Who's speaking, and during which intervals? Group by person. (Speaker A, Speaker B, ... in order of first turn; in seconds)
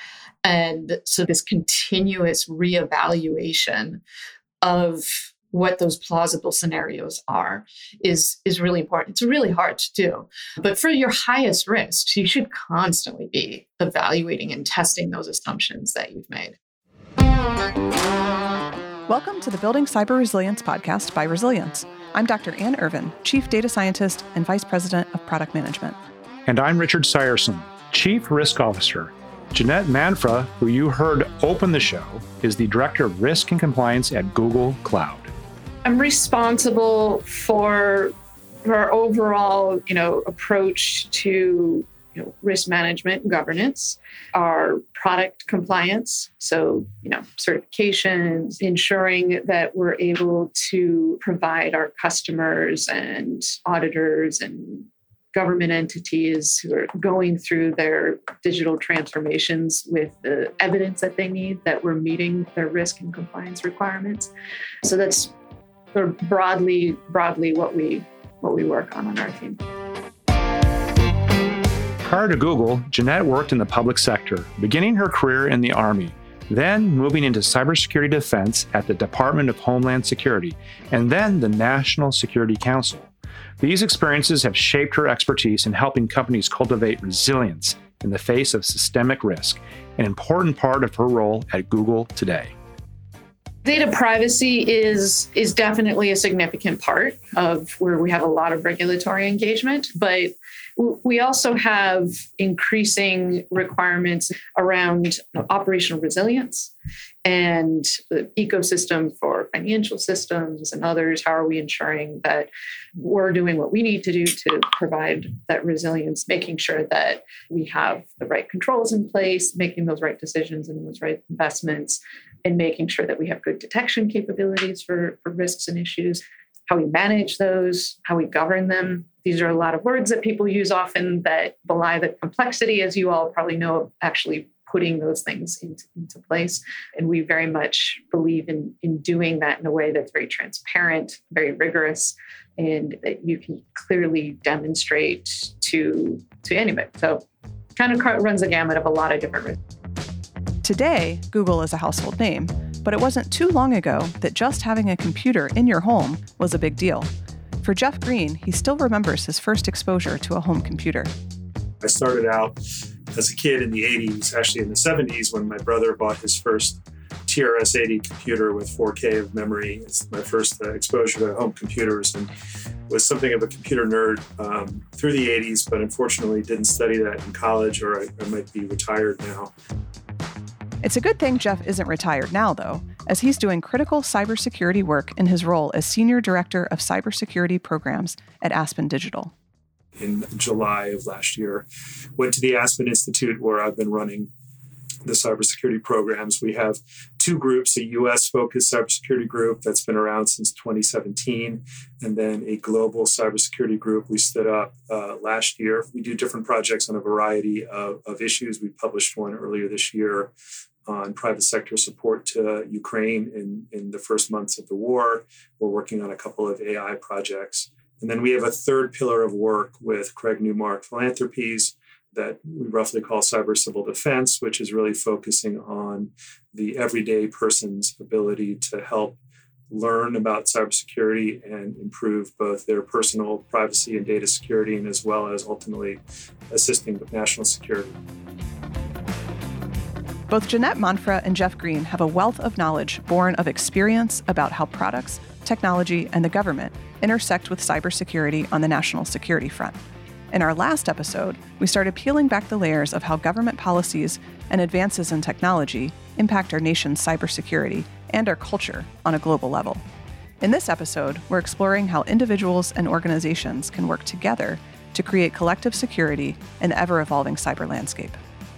Speaker A: 0.4-4.0, 4.6-16.6, 35.8-38.1, 38.6-64.3, 64.8-65.3, 65.9-69.6, 93.6-106.7, 107.2-147.2, 147.8-149.6
Speaker B: 19.1-26.0, 150.6-157.1, 157.6-161.1, 180.8-189.3, 240.3-249.8, 250.3-259.8, 260.4-268.2
Speaker C: 26.5-35.3, 72.0-92.5
Speaker D: 161.8-162.6, 163.1-172.3, 172.9-179.5, 190.0-191.7, 192.2-194.3, 195.0-210.3, 210.8-229.2, 229.7-238.0